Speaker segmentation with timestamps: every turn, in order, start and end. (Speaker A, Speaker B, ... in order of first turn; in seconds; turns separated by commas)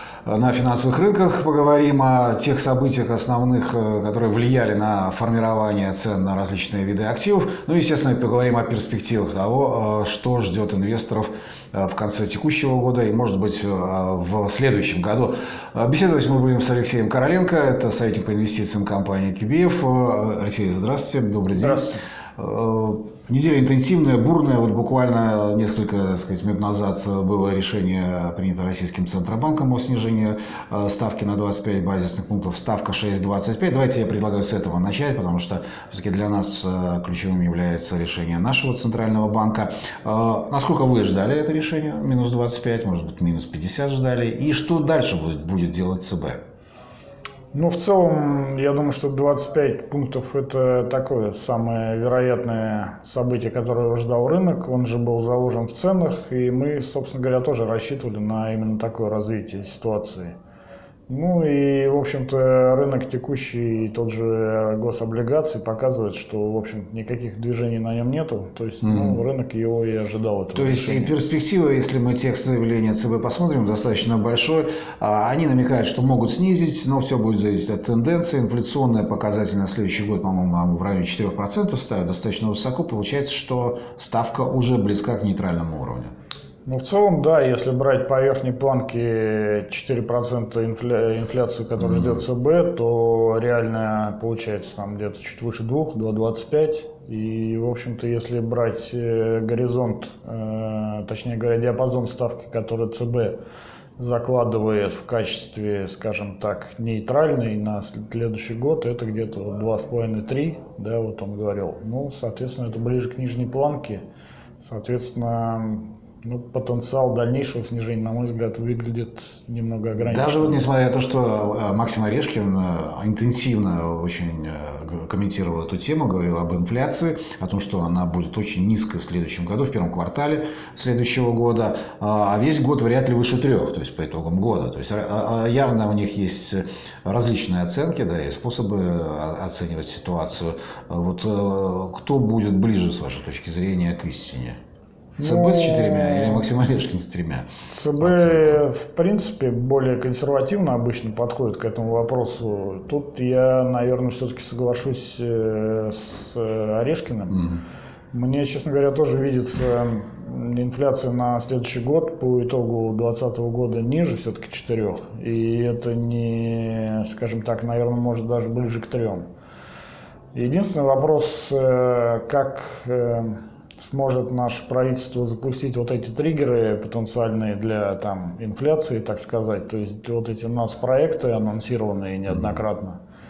Speaker A: 0.2-21.8, Speaker B: 21.5-22.0, Speaker A: 22.4-46.4, Speaker B: 47.5-60.4, Speaker B: 61.1-71.2, Speaker A: 68.8-69.2, Speaker A: 70.5-86.1, Speaker B: 86.7-103.4, Speaker A: 91.8-92.2, Speaker B: 104.0-114.0, Speaker B: 114.6-120.7, Speaker A: 120.0-144.6, Speaker B: 145.2-146.5, Speaker A: 145.2-147.5, Speaker B: 147.7-157.4, Speaker A: 148.0-148.6, Speaker A: 157.3-157.6, Speaker B: 158.1-169.2, Speaker B: 170.3-183.0, Speaker A: 182.3-182.6